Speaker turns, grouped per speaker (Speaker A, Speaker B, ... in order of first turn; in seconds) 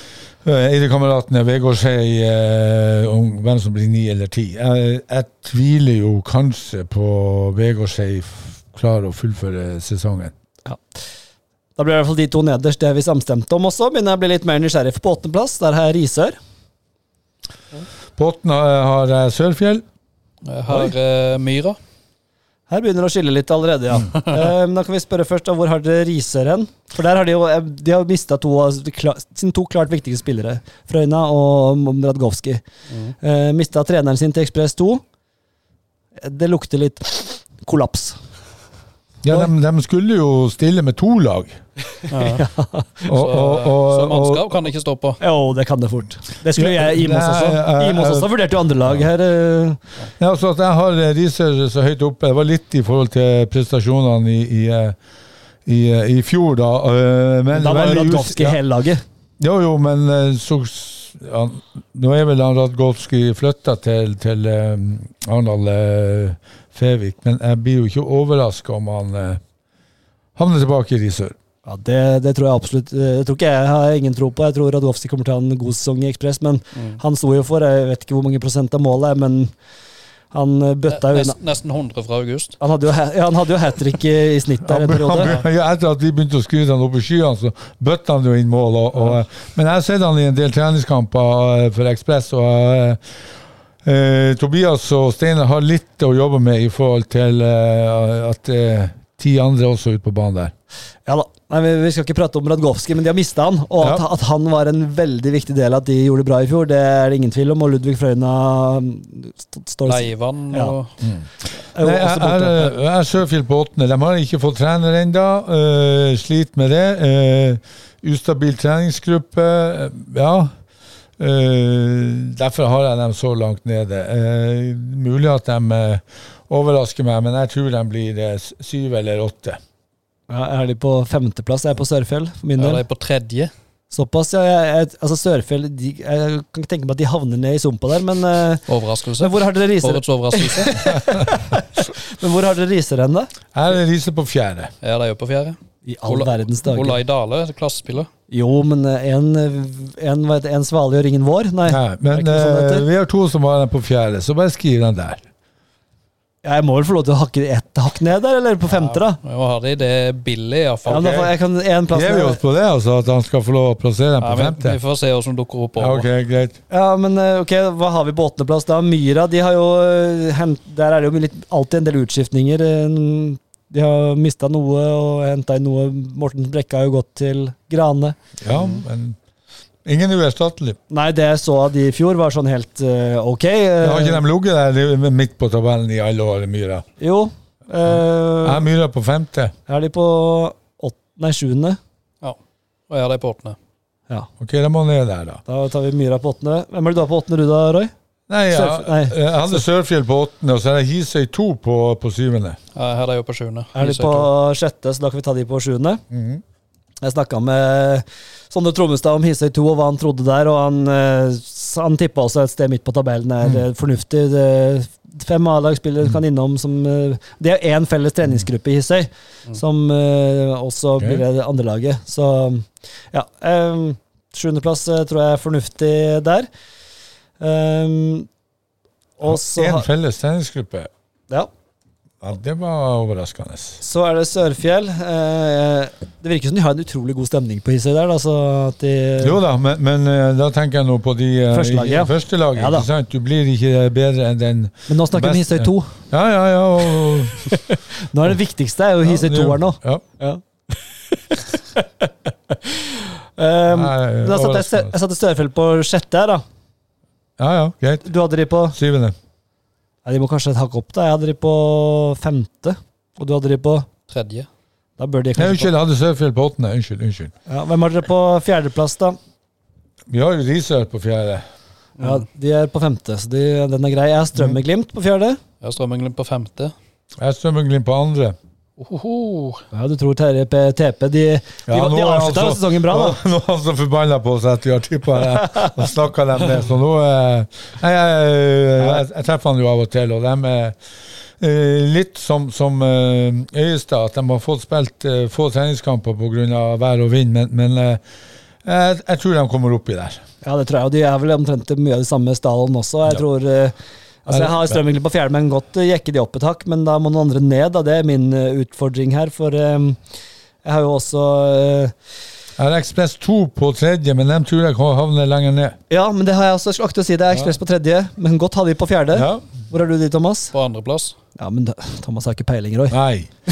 Speaker A: 0.4-10.3, 18.2-19.8, 39.2-41.6, 43.1-44.5, 46.5-48.3, 50.2-55.0, 55.7-58.6, 59.4-69.4, 70.4-71.3, 84.7-93.0, 93.8-100.5, 111.0-120.5, 121.2-129.6, 143.5-144.7, 151.7-155.2, 160.9-161.3, 161.9-164.8, 165.8-166.6, 178.4-179.2, 179.8-180.8, 183.8-186.8, 188.4-189.5, 194.4-195.4, 198.3-202.6, 206.1-206.4, 229.2-230.9, 232.2-233.8, 239.2-247.6, 249.0-250.0, 253.7-254.9, 257.4-258.1, 258.7-259.1, 265.4-267.3, 270.1-271.4, 277.2-278.4, 281.7-290.8, 291.4-298.0, 298.6-300.2, 304.3-304.8, 312.6-315.8, 319.1-319.5, 322.9-323.3
Speaker B: 11.8-16.4, 22.7-32.6, 33.2-35.0, 36.2-38.2, 42.2-43.0, 45.2-49.8, 57.5-59.0, 71.7-79.5, 80.3-81.4, 82.6-85.4, 101.1-110.8, 111.7-112.7, 130.3-132.8, 133.9-138.7, 139.2-143.3, 145.8-147.0, 148.3-152.9, 156.4-159.2, 160.9-162.4, 166.7-178.2, 180.9-184.2, 187.0-188.7, 189.7-191.8, 195.5-197.9, 198.5-199.6, 203.8-206.0, 207.0-226.5, 227.4-228.3, 229.2-229.9, 233.8-239.4, 241.5-242.9, 244.9-245.9, 247.5-250.4, 251.3-256.4, 258.1-258.8, 260.1-263.9, 265.0-265.7, 267.5-269.2, 272.0-275.4, 279.7-283.2, 300.4-310.0, 310.6-311.9, 315.9-320.5, 321.4-323.0
Speaker C: 20.4-21.8, 42.1-42.5, 43.1-45.2, 80.9-82.6, 109.9-110.9, 132.6-133.5, 138.7-140.9, 144.8-148.1, 158.7-161.2, 164.2-166.1, 192.9-193.6, 202.8-204.3, 264.1-264.5, 275.6-276.7, 278.8-279.6, 320.5-321.1